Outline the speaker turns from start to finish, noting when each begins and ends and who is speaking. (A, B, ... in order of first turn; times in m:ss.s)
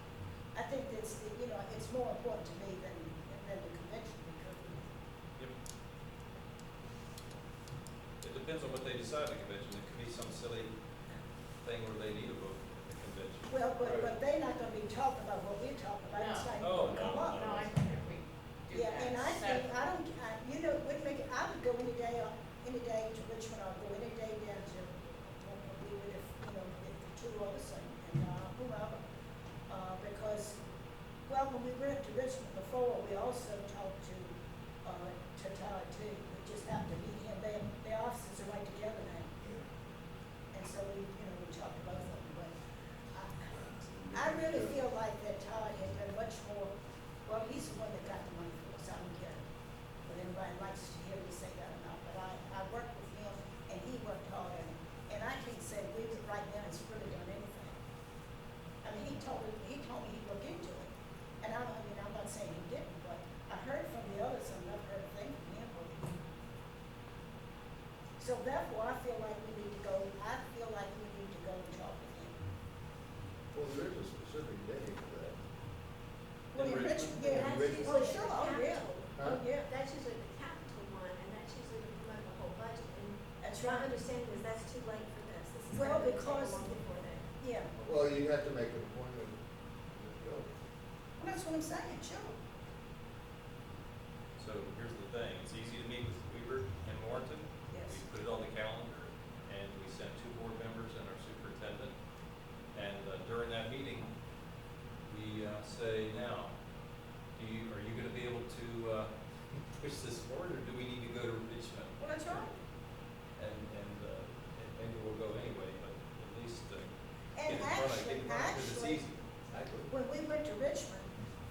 0:00.5-0:05.0 A
0:08.2-0:10.7 B
0:11.6-0:14.1 B
0:13.5-0:17.7 A
0:16.1-0:19.6 C
0:16.6-0:17.7 B
0:18.7-0:29.0 A
0:29.7-0:30.6 A
0:31.2-0:39.4 A
0:39.4-0:39.7 D
0:40.5-0:42.6 A
0:43.1-0:43.5 A
0:43.5-0:44.8 D
0:44.1-0:46.7 A
0:47.2-0:49.4 A
0:50.0-0:57.8 A
0:58.8-1:06.3 A
1:08.2-1:12.4 A
1:13.5-1:15.4 D
1:16.5-1:17.3 B
1:16.5-1:19.7 A
1:17.2-1:18.0 D
1:17.3-1:27.3 E
1:23.4-1:23.9 A
1:25.7-1:26.7 A
1:27.4-1:27.7 A
1:27.8-1:29.4 D
1:29.9-1:30.5 D
1:31.2-1:32.4 A
1:34.4-1:41.9 B
1:37.7-1:38.0 A
1:42.7-1:44.1 B
1:45.0-1:46.5 B
1:47.4-1:49.1 B
1:49.8-1:52.5 B
1:52.0-1:52.5 A
1:53.4-1:59.2 B
1:57.3-1:59.0 A
1:59.5-1:59.9 D
1:59.9-2:01.1 A